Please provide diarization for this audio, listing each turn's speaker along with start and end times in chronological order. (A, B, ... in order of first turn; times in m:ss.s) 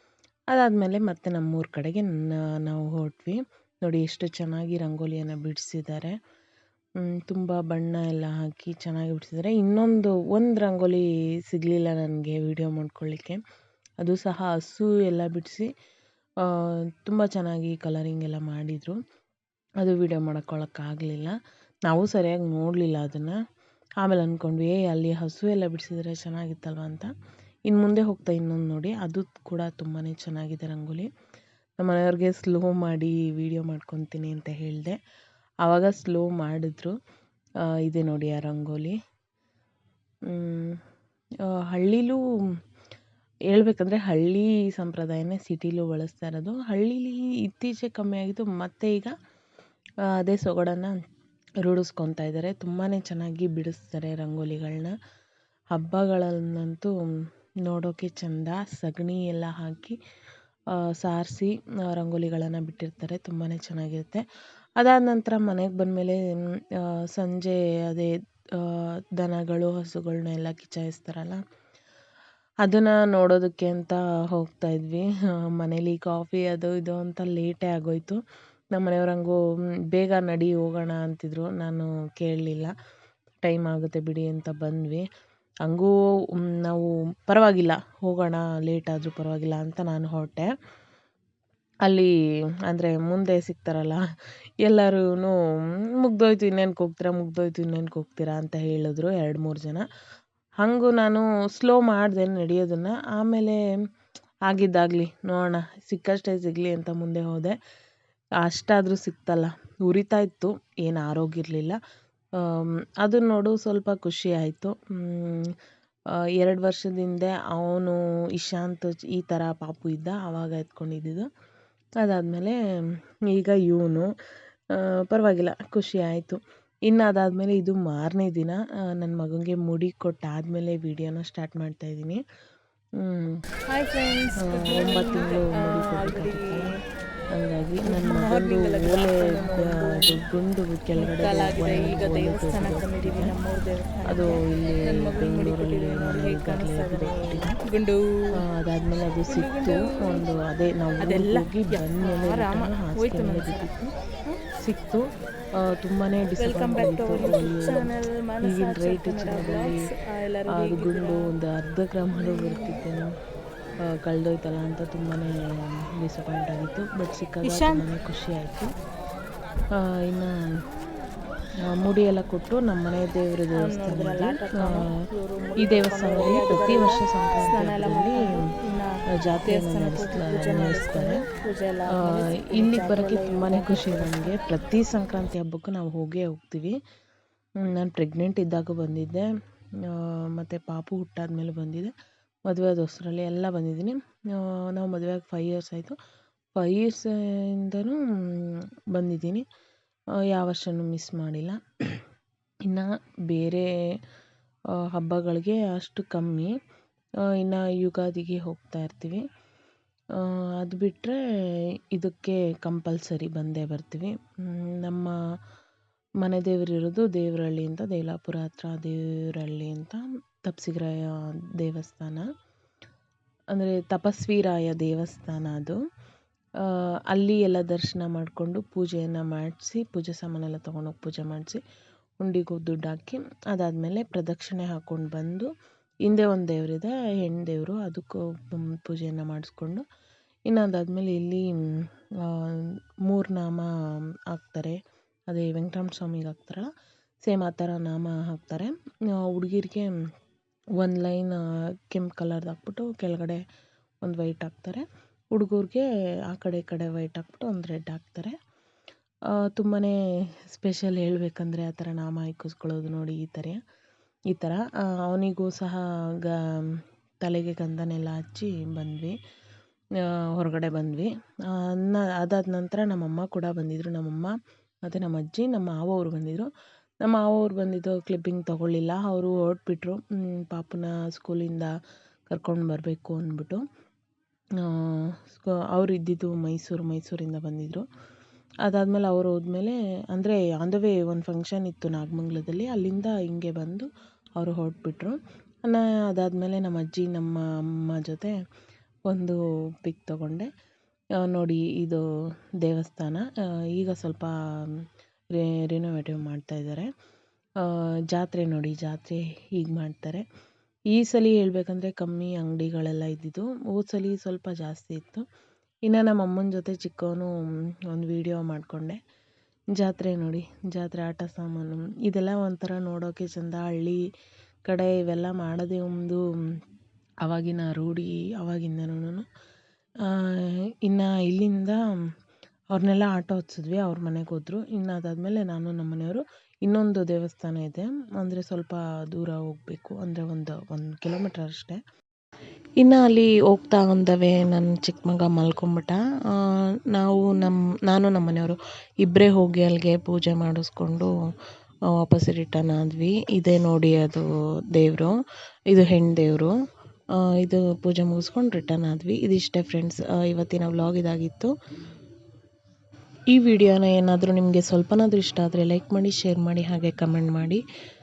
0:00.5-0:06.2 A
0:07.0-0:13.4 A
0:14.0-0:15.7 A
0:16.4-0:19.0 A
0:19.8-0:21.4 A
0:21.9-0:23.4 A
0:24.0-0:27.1 A
0:27.7-0:31.1 A
0:31.8-0:35.0 A
0:35.6-0:37.0 A
0:37.8-0:39.0 A
0:40.3-0:40.8 A
0:41.5-0:42.2 A
0:43.5-0:49.1 A
0:50.1-0:51.0 A
0:51.6-0:54.9 A
0:55.7-0:57.0 A
0:57.7-1:00.0 A
1:01.0-1:04.2 A
1:04.8-1:06.2 A
1:06.8-1:11.4 A
1:12.6-1:18.2 A
1:18.8-1:19.4 A
1:19.9-1:22.7 A
1:23.4-1:25.0 A
1:25.7-1:30.5 A
1:31.9-1:32.1 A
1:32.7-1:34.0 A
1:34.6-1:35.4 A
1:36.0-1:39.8 A
1:40.6-1:43.6 A
1:44.5-1:47.6 A
1:48.4-1:51.8 A
1:52.4-1:55.5 A
1:56.4-2:01.3 A
2:02.0-2:02.6 A
2:03.3-2:04.1 A
2:04.8-2:12.2 A
2:13.0-2:13.4 A
2:13.7-2:16.7 B
2:14.4-2:16.7 A
2:17.4-2:23.3 A
2:17.9-2:20.2 B
2:21.0-2:28.0 B
2:24.1-2:27.6 A
2:28.4-2:33.9 A
2:29.3-2:30.3 B
2:31.0-2:33.7 B
2:34.6-2:35.1 A
2:35.6-2:37.9 A
2:36.4-2:41.3 B
2:38.4-2:39.7 A
2:40.6-2:43.1 A
2:42.2-2:42.8 B
2:43.9-2:48.7 A
2:47.5-2:47.8 B
2:50.0-2:50.4 A
2:51.8-2:54.9 A
2:53.6-3:04.4 B
2:55.6-2:58.4 A
2:59.2-3:01.2 A
3:02.0-3:06.8 A
3:07.6-3:09.3 A
3:09.9-3:11.9 A
3:12.5-3:16.0 A
3:16.6-3:19.4 A
3:20.3-3:22.0 A
3:22.7-3:23.7 A
3:24.8-3:26.5 A
3:27.3-3:29.2 A
3:30.2-3:31.2 A
3:31.9-3:35.2 A
3:36.2-3:42.3 A
3:43.5-3:45.8 A
3:46.6-3:51.6 A
3:52.2-3:55.5 A
3:56.1-3:59.8 A
4:00.5-4:01.5 A
4:02.2-4:03.7 A
4:04.3-4:04.8 A
4:05.3-4:06.7 A
4:07.2-4:09.9 A
4:10.8-4:13.4 A
4:14.0-4:18.3 A
4:19.3-4:20.0 A
4:20.5-4:23.6 A
4:24.3-4:29.2 A
4:30.0-4:36.5 A
4:37.0-4:41.7 A
4:42.3-4:43.6 A
4:44.6-4:47.9 A
4:48.7-4:58.4 A
4:59.1-5:00.5 A
5:01.2-5:02.0 A
5:02.6-5:04.3 A
5:05.3-5:06.9 A
5:07.6-5:10.2 A
5:10.9-5:15.3 A
5:15.9-5:19.0 A
5:19.8-5:24.0 A
5:24.7-5:26.2 A
5:27.2-5:29.3 A
5:30.0-5:31.9 A
5:32.7-5:41.8 A
5:42.8-5:51.1 A
5:51.9-5:55.1 A
5:55.7-5:56.5 A
5:57.2-6:01.5 A
6:03.3-6:07.6 A